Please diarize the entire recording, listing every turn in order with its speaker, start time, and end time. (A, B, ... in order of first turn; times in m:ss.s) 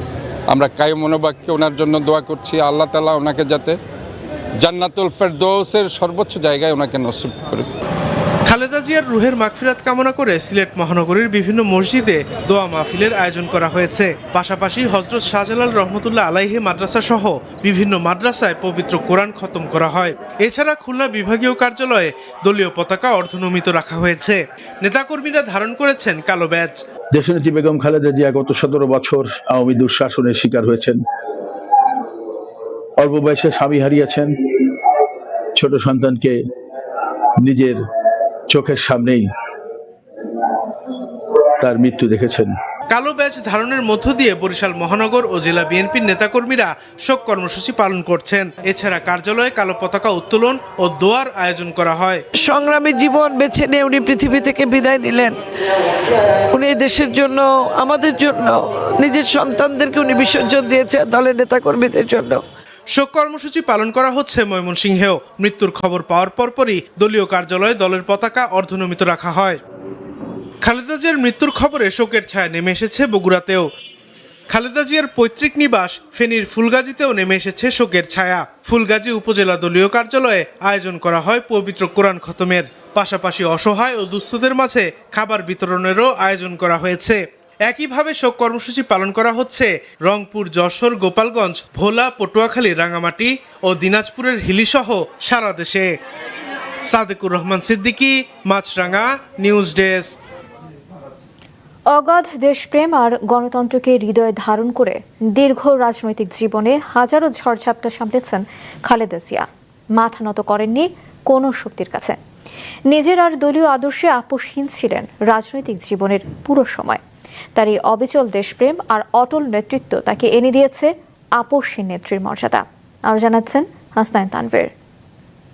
0:00.5-0:03.8 A
0:04.6-0:07.7 A
0:08.5-0:26.8 B
0:27.1-0:31.0 C
0:33.0-0:34.3 C
0:35.6-0:36.4 C
0:37.4-0:37.8 C
0:38.5-0:39.2 C
0:41.6-0:42.5 C
0:42.9-0:52.2 B
0:52.4-0:55.4 D
0:56.5-1:02.4 D
1:03.0-1:09.6 B
1:10.6-1:13.7 B
1:14.5-1:35.9 B
1:36.9-1:40.2 B
1:41.9-1:52.2 E
1:52.9-1:57.0 E
1:57.6-2:04.7 E